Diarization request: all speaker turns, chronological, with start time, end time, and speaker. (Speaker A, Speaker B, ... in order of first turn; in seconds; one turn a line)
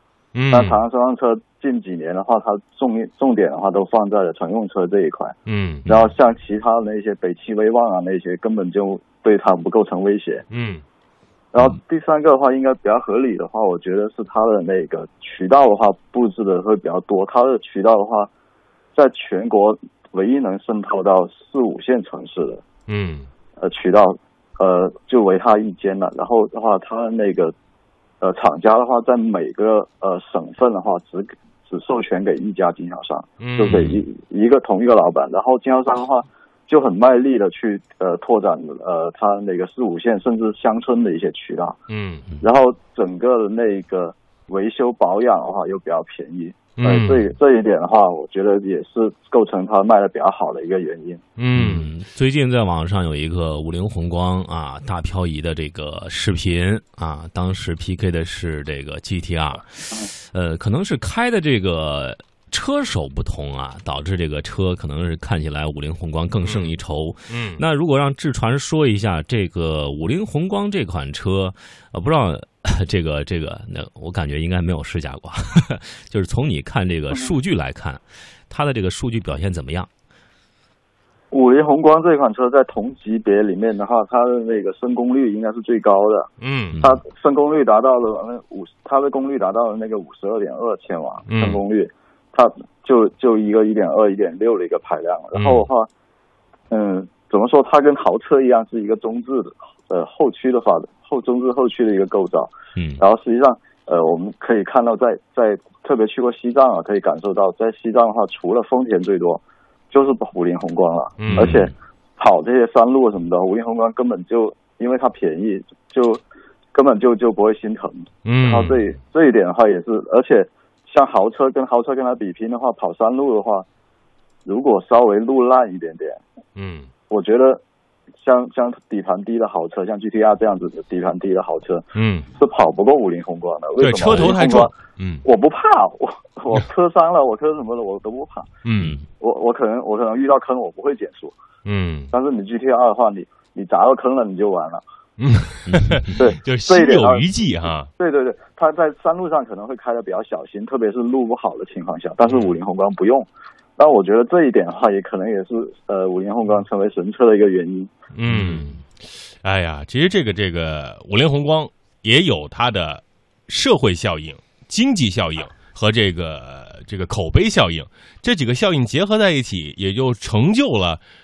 Speaker A: 0.3-0.8
Speaker B: 0.5-10.4
Speaker A: 5.5-5.8
Speaker A: 10.5-10.8
Speaker B: 11.5-18.3
Speaker B: 18.9-22.6
Speaker A: 22.9-23.3
Speaker B: 23.6-27.5
Speaker B: 28.2-41.8
Speaker A: 33.4-33.8
Speaker C: 33.7-34.0
Speaker A: 41.9-42.2
Speaker B: 42.4-51.2
Speaker A: 46.8-47.3
Speaker A: 51.4-51.9
Speaker C: 51.5-79.9
Speaker A: 66.4-66.8
Speaker A: 67.3-67.6
Speaker B: 81.3-95.9
Speaker A: 86.4-86.8
Speaker A: 91.3-91.6
Speaker A: 95.3-95.7
Speaker B: 96.7-123.7
Speaker C: 102.8-103.0
Speaker A: 111.2-111.6
Speaker C: 111.3-111.7
Speaker A: 118.2-118.9
Speaker B: 124.5-126.2
Speaker A: 126.5-126.9
Speaker B: 127.1-127.6
Speaker B: 128.2-131.8
Speaker A: 131.9-132.3
Speaker B: 132.3-134.7
Speaker A: 133.8-135.2
Speaker B: 135.2-138.5
Speaker A: 138.6-139.0
Speaker B: 139.2-141.3
Speaker A: 141.6-142.1
Speaker B: 142.1-144.8
Speaker A: 145.2-147.9
Speaker C: 145.7-145.9
Speaker B: 146.1-147.2
Speaker B: 147.9-157.9
Speaker A: 152.2-152.6
Speaker A: 158.1-158.8
Speaker C: 158.3-158.8
Speaker A: 159.4-171.0